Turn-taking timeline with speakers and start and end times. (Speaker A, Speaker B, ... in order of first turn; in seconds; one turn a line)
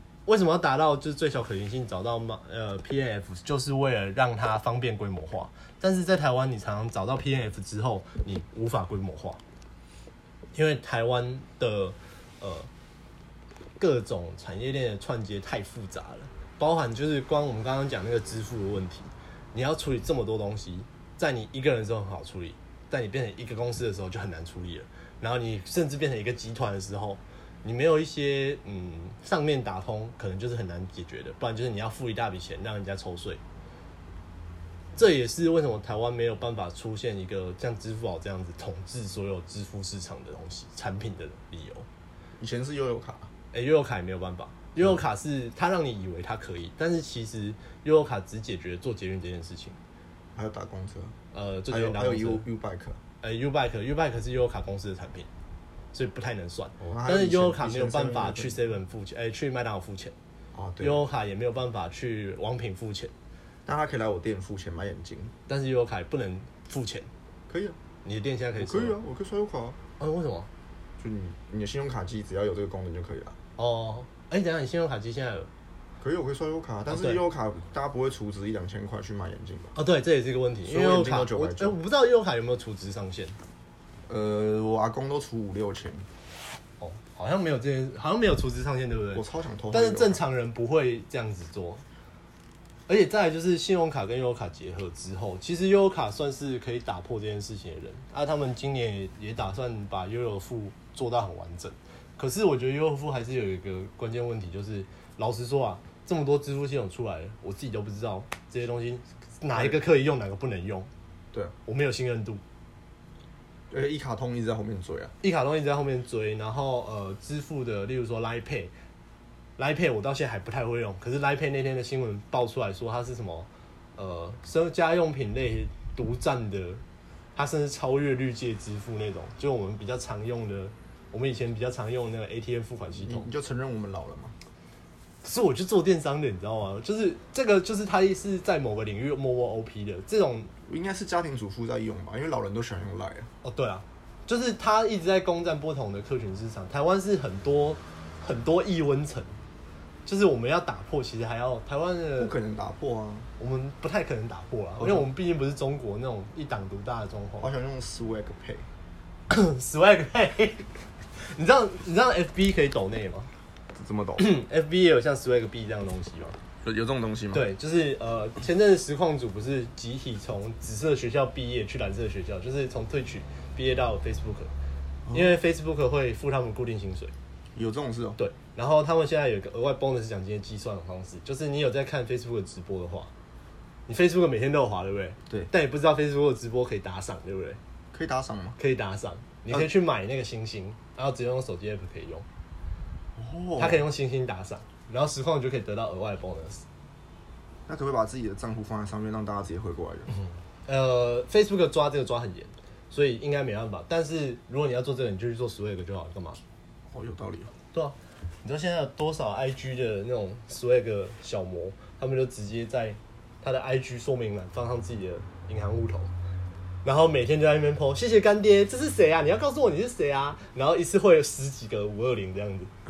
Speaker A: 0.2-9.4
Speaker A: 10.5-12.7
Speaker A: 13.8-33.4
Speaker A: 35.0-41.9
Speaker B: 42.4-43.3
Speaker A: 43.5-49.8
Speaker B: 50.3-51.1
Speaker A: 51.3-52.4
Speaker B: 51.7-53.0
Speaker A: 53.2-55.3
Speaker A: 55.9-60.1
Speaker B: 56.8-58.6
Speaker B: 60.5-61.0
Speaker A: 60.8-63.1
Speaker B: 63.6-65.3
Speaker A: 65.5-67.1
Speaker B: 67.5-67.8
Speaker A: 68.0-69.0
Speaker B: 68.6-69.8
Speaker A: 70.0-70.5
Speaker B: 71.0-73.3
Speaker A: 73.6-75.5
Speaker B: 76.0-79.7
Speaker A: 76.9-77.2
Speaker A: 79.8-83.3
Speaker B: 80.6-81.8
Speaker B: 84.1-86.1
Speaker A: 86.8-91.8
Speaker B: 89.1-90.2
Speaker A: 92.9-110.9
Speaker B: 109.5-109.8
Speaker A: 111.7-112.4
Speaker B: 113.7-115.1
Speaker A: 115.2-118.7
Speaker A: 119.6-126.8
Speaker A: 127.3-133.3
Speaker B: 133.0-134.3
Speaker A: 135.2-140.5
Speaker B: 140.7-143.3
Speaker A: 143.4-149.3
Speaker A: 150.1-152.3
Speaker B: 152.2-153.3
Speaker A: 153.4-157.5
Speaker B: 154.8-155.1
Speaker B: 157.4-158.7
Speaker A: 159.3-160.7
Speaker A: 161.2-163.3
Speaker B: 163.7-164.3
Speaker A: 164.2-166.4
Speaker B: 166.6-167.4
Speaker A: 167.3-174.5
Speaker B: 175.1-175.4
Speaker A: 175.1-177.1
Speaker B: 177.5-178.2
Speaker A: 178.2-183.1
Speaker A: 183.9-187.6
Speaker B: 187.9-188.6
Speaker A: 188.6-192.2
Speaker B: 193.2-193.8
Speaker A: 193.6-196.6
Speaker B: 197.7-200.1
Speaker A: 200.7-206.4
Speaker B: 206.9-207.5
Speaker A: 207.7-216.1
Speaker A: 216.8-222.7